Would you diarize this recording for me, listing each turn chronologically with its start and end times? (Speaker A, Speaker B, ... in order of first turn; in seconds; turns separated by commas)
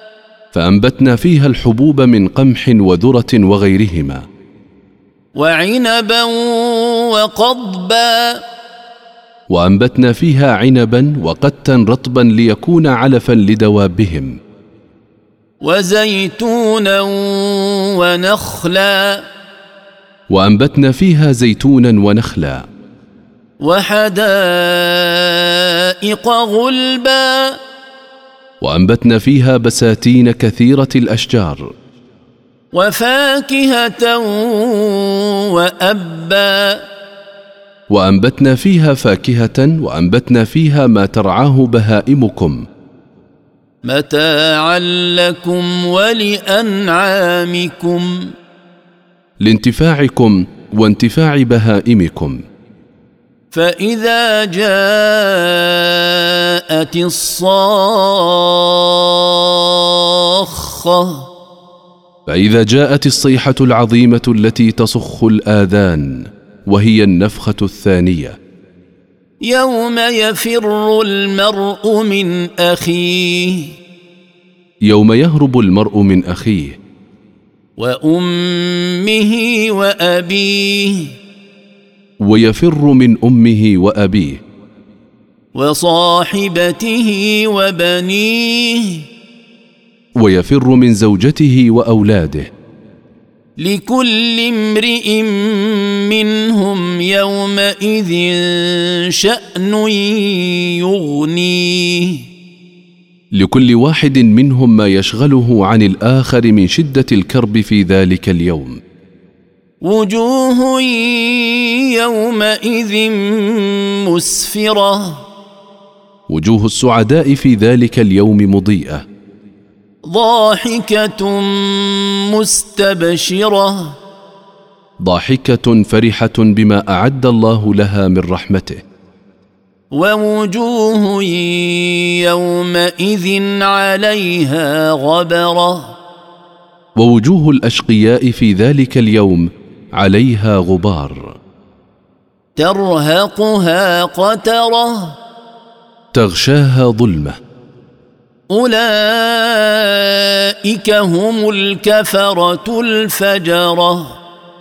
Speaker A: 0.5-4.2, Speaker B: 5.3-8.4, Speaker A: 9.5-14.3, Speaker B: 15.6-19.2, Speaker A: 20.3-22.6, Speaker B: 23.6-27.6, Speaker A: 28.6-31.7, Speaker B: 32.7-36.8, Speaker A: 37.9-42.6, Speaker B: 43.8-48.3, Speaker A: 49.4-52.4, Speaker B: 53.5-61.3, Speaker A: 62.3-68.3, Speaker B: 69.4-73.7, Speaker A: 74.8-76.8, Speaker B: 77.8-81.1, Speaker A: 82.2-84.4, Speaker B: 85.5-89.0, Speaker A: 90.2-92.5, Speaker B: 93.6-102.2, Speaker A: 103.3-108.8, Speaker B: 109.8-115.2, Speaker A: 116.3-119.0, Speaker B: 120.0-124.0, Speaker A: 125.0-128.8, Speaker B: 129.9-135.9, Speaker A: 137.0-141.3, Speaker B: 142.6-145.2, Speaker A: 146.1-147.4, Speaker B: 148.5-154.2